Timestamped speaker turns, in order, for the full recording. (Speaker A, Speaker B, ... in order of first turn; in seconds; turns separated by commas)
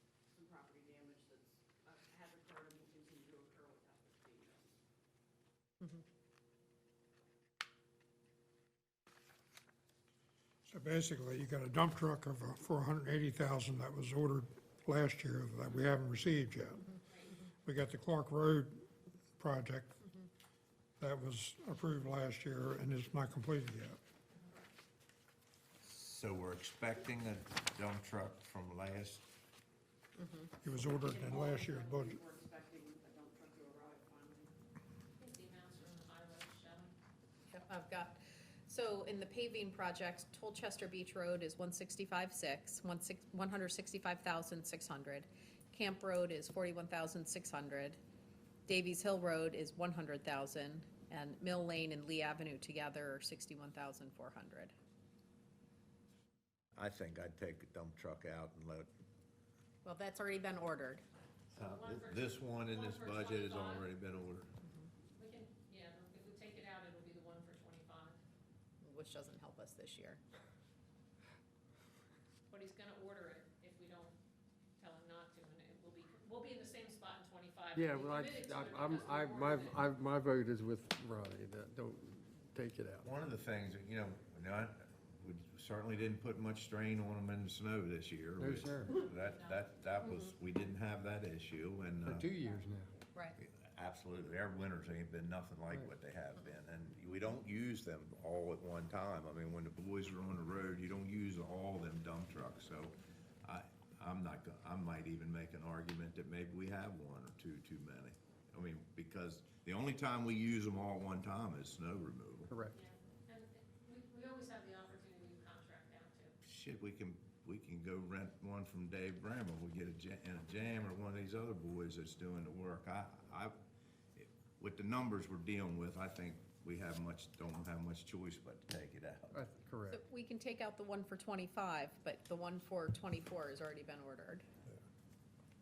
Speaker A: 0.3-4.8, Speaker B: 10.7-17.0, Speaker C: 17.1-17.4, Speaker B: 17.6-20.0, Speaker B: 21.0-24.0, Speaker D: 25.8-29.2, Speaker E: 30.1-30.5, Speaker B: 30.6-32.2, Speaker A: 31.0-34.5, Speaker C: 35.2-36.9, Speaker E: 37.5-48.0, Speaker E: 48.7-54.7, Speaker D: 56.7-58.9, Speaker E: 59.8-61.0, Speaker D: 61.5-64.5, Speaker C: 61.6-63.9, Speaker E: 64.6-64.9, Speaker C: 65.2-68.2, Speaker E: 68.8-70.2, Speaker C: 72.5-74.2, Speaker C: 74.8-79.8, Speaker F: 77.7-83.0, Speaker D: 83.0-92.3, Speaker F: 88.4-89.0, Speaker C: 89.0-89.6, Speaker E: 90.0-90.3, Speaker F: 92.1-92.9, Speaker D: 93.4-112.5, Speaker F: 112.5-112.7, Speaker C: 112.7-116.4, Speaker D: 116.4-123.5, Speaker D: 124.2-129.4, Speaker F: 129.3-130.0, Speaker E: 129.9-134.5